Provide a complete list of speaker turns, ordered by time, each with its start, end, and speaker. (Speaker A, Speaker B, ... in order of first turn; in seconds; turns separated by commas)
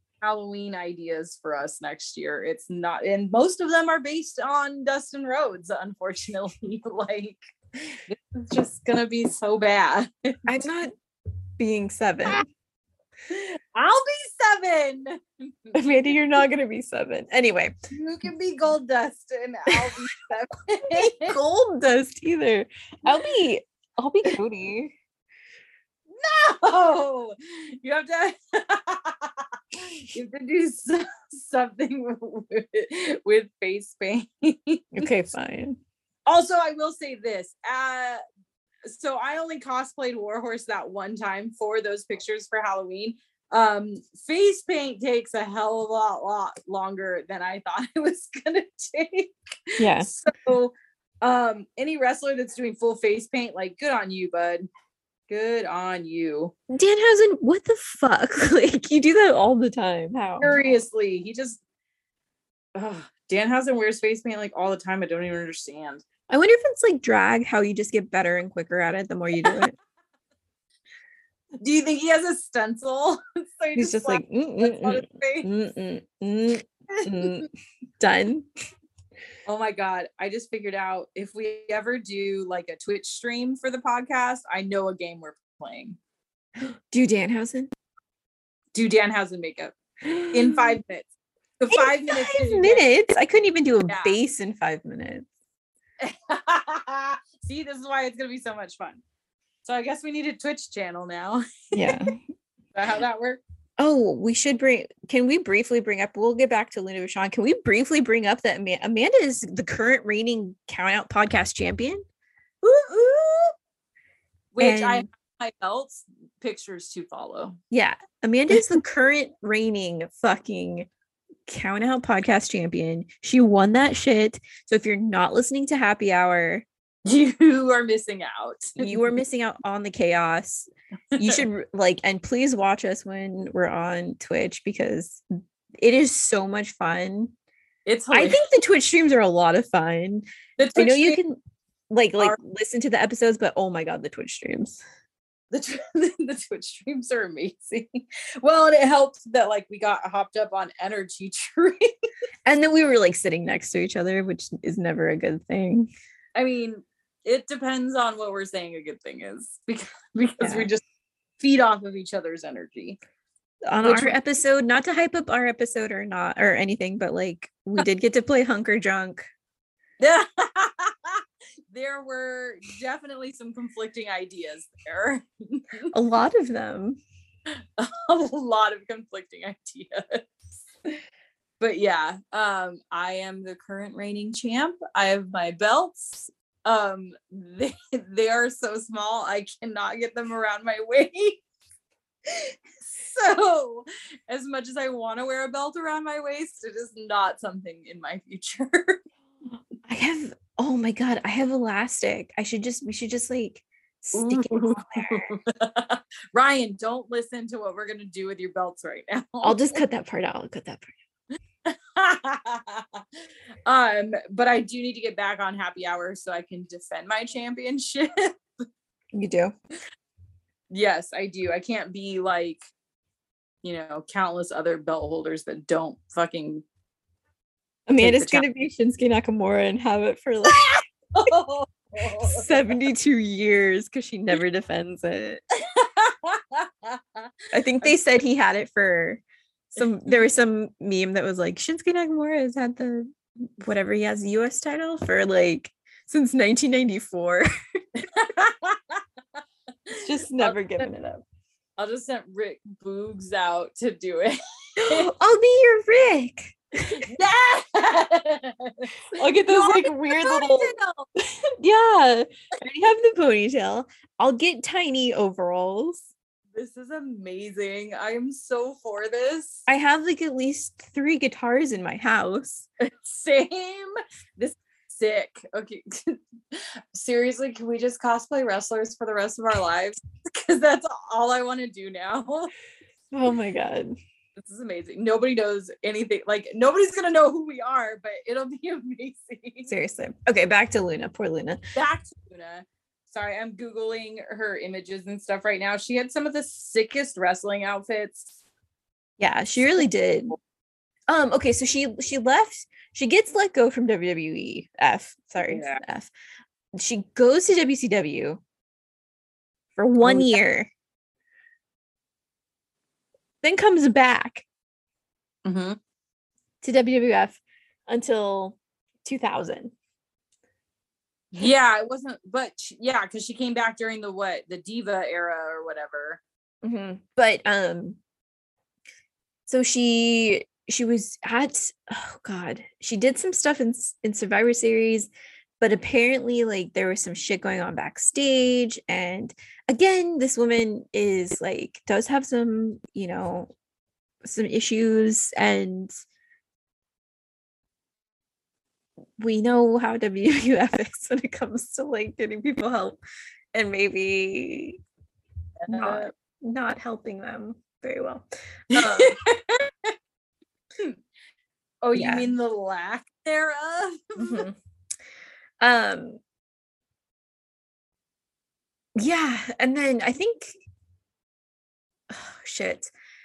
Speaker A: 0.2-10.4, Speaker B: 10.5-10.9, Speaker B: 11.6-12.4, Speaker A: 13.3-15.8, Speaker B: 15.7-17.7, Speaker A: 17.9-21.4, Speaker B: 20.9-24.9, Speaker A: 26.2-35.1, Speaker B: 35.0-35.8, Speaker A: 36.3-38.2, Speaker A: 38.9-54.7, Speaker B: 49.8-50.1, Speaker A: 55.3-56.5, Speaker B: 56.7-60.5, Speaker A: 60.4-61.6, Speaker A: 62.8-66.0, Speaker B: 66.3-69.8, Speaker A: 71.6-75.5, Speaker B: 73.8-77.5, Speaker A: 76.9-77.3, Speaker B: 78.0-78.5, Speaker A: 79.5-86.0, Speaker B: 86.6-87.7, Speaker A: 88.7-89.7, Speaker B: 90.0-90.8, Speaker A: 90.3-92.8, Speaker B: 91.7-95.3, Speaker A: 93.9-94.2, Speaker A: 96.0-99.0, Speaker A: 99.7-102.1, Speaker B: 101.7-102.2, Speaker A: 102.7-103.4, Speaker B: 103.8-112.0, Speaker A: 112.6-113.5, Speaker A: 114.5-117.6, Speaker B: 114.6-115.1, Speaker B: 117.7-120.9, Speaker B: 121.5-126.7, Speaker A: 127.0-129.1, Speaker B: 128.8-135.2, Speaker A: 131.1-131.4, Speaker B: 135.8-137.3, Speaker A: 137.9-138.4, Speaker B: 138.1-141.4, Speaker A: 140.6-141.2, Speaker B: 141.9-144.8, Speaker A: 145.5-151.9, Speaker B: 152.5-155.9, Speaker A: 156.4-160.8, Speaker B: 160.4-160.7, Speaker A: 161.4-163.0, Speaker B: 163.7-169.2, Speaker A: 163.8-164.2, Speaker A: 170.0-175.9, Speaker B: 175.9-177.0, Speaker A: 177.8-180.2, Speaker A: 181.6-191.4, Speaker A: 192.3-199.1, Speaker B: 199.8-205.3, Speaker A: 204.2-209.8, Speaker B: 209.4-210.9, Speaker A: 211.7-213.0, Speaker A: 213.7-218.3, Speaker B: 219.1-219.6, Speaker A: 220.7-222.6, Speaker A: 223.6-226.7, Speaker B: 227.9-230.7, Speaker A: 228.0-228.4, Speaker A: 230.5-232.8, Speaker B: 232.2-235.4, Speaker A: 235.6-237.2, Speaker B: 237.5-239.2, Speaker B: 239.8-247.5, Speaker A: 248.0-249.0, Speaker A: 249.9-250.9, Speaker B: 250.0-251.2, Speaker A: 251.8-255.1, Speaker B: 254.8-257.1, Speaker A: 256.9-261.1, Speaker B: 259.2-260.8, Speaker B: 261.6-266.1, Speaker A: 266.6-269.6, Speaker B: 269.7-272.7, Speaker A: 272.8-282.5, Speaker B: 283.1-284.0, Speaker A: 284.4-289.7, Speaker B: 289.7-291.6, Speaker A: 291.8-298.3, Speaker B: 299.2-300.4, Speaker B: 301.1-306.1, Speaker A: 305.4-305.8, Speaker B: 306.8-308.4, Speaker B: 309.8-310.7, Speaker A: 310.0-310.4, Speaker B: 313.4-314.4, Speaker A: 315.4-315.8, Speaker B: 316.6-319.7, Speaker A: 321.3-326.2, Speaker B: 326.6-328.0, Speaker B: 329.5-335.1, Speaker B: 335.6-343.5, Speaker B: 344.2-345.9, Speaker B: 349.2-353.0, Speaker B: 353.5-354.8, Speaker A: 355.6-356.1, Speaker B: 355.7-359.2, Speaker A: 358.7-359.9, Speaker A: 361.8-364.5, Speaker B: 361.9-362.3, Speaker B: 364.2-364.6, Speaker B: 365.6-366.2, Speaker B: 369.0-370.6, Speaker B: 372.1-372.9